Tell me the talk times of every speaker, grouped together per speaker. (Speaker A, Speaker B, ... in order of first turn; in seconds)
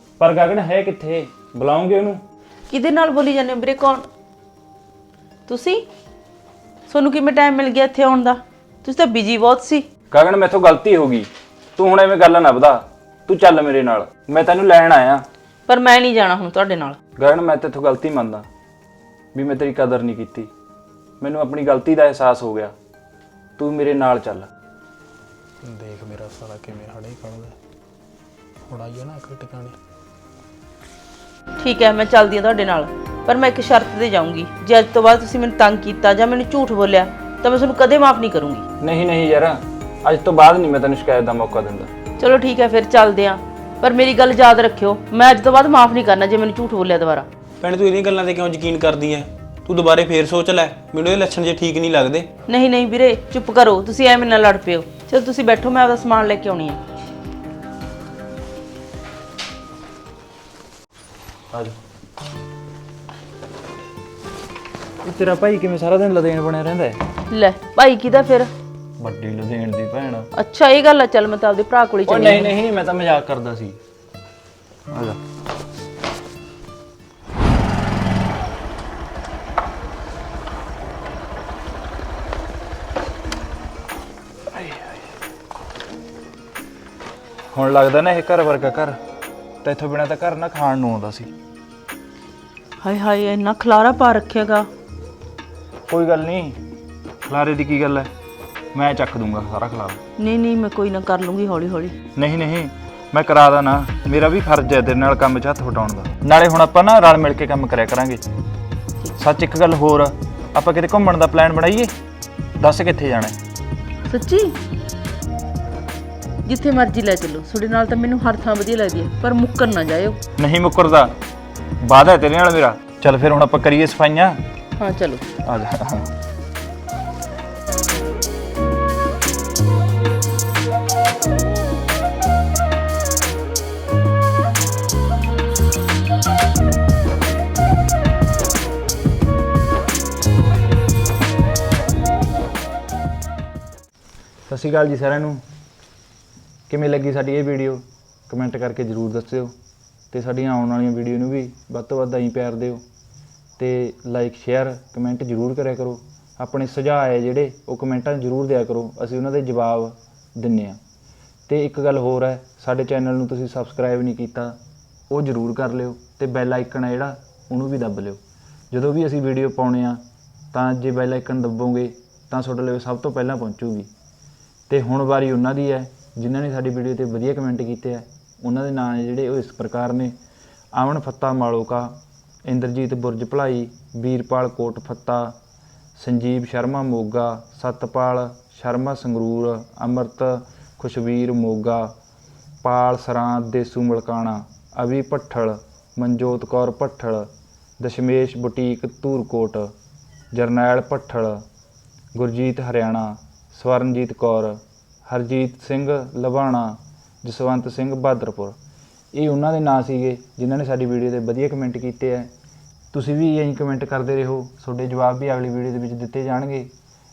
Speaker A: 0.2-2.2, 10.1-15.2, 17.2-18.5, 19.3-20.5, 21.2-22.7, 23.6-24.5, 38.8-41.9, 61.5-61.8, 65.0-67.0, 69.0-70.3, 72.0-73.8, 74.9-75.2, 84.5-85.0, 87.5-89.0, 89.6-91.3, 95.9-96.6, 97.2-98.1, 98.7-100.0, 102.2-108.2, 109.2-111.9, 112.6-113.4, 120.4-121.1, 121.8-124.4, 125.4-126.1, 144.5-145.4, 146.7-149.5, 150.1-152.8, 153.6-160.8, 161.5-168.2, 168.7-173.9, 174.7-180.1, 180.7-185.4, 185.9-191.9, 192.6-199.7, 200.3-201.4, 202.1-208.6, 209.1-212.3, 212.9-216.7
Speaker B: 2.7-4.0, 5.5-5.8, 6.9-9.8, 15.7-17.0, 31.6-38.6, 42.2-47.3, 52.5-56.8, 67.3-68.5, 70.3-72.5, 92.8-94.7, 100.2-102.0, 114.1-114.6, 116.4-120.2, 124.8-125.2
Speaker C: 25.6-27.5, 28.7-29.8, 47.6-52.3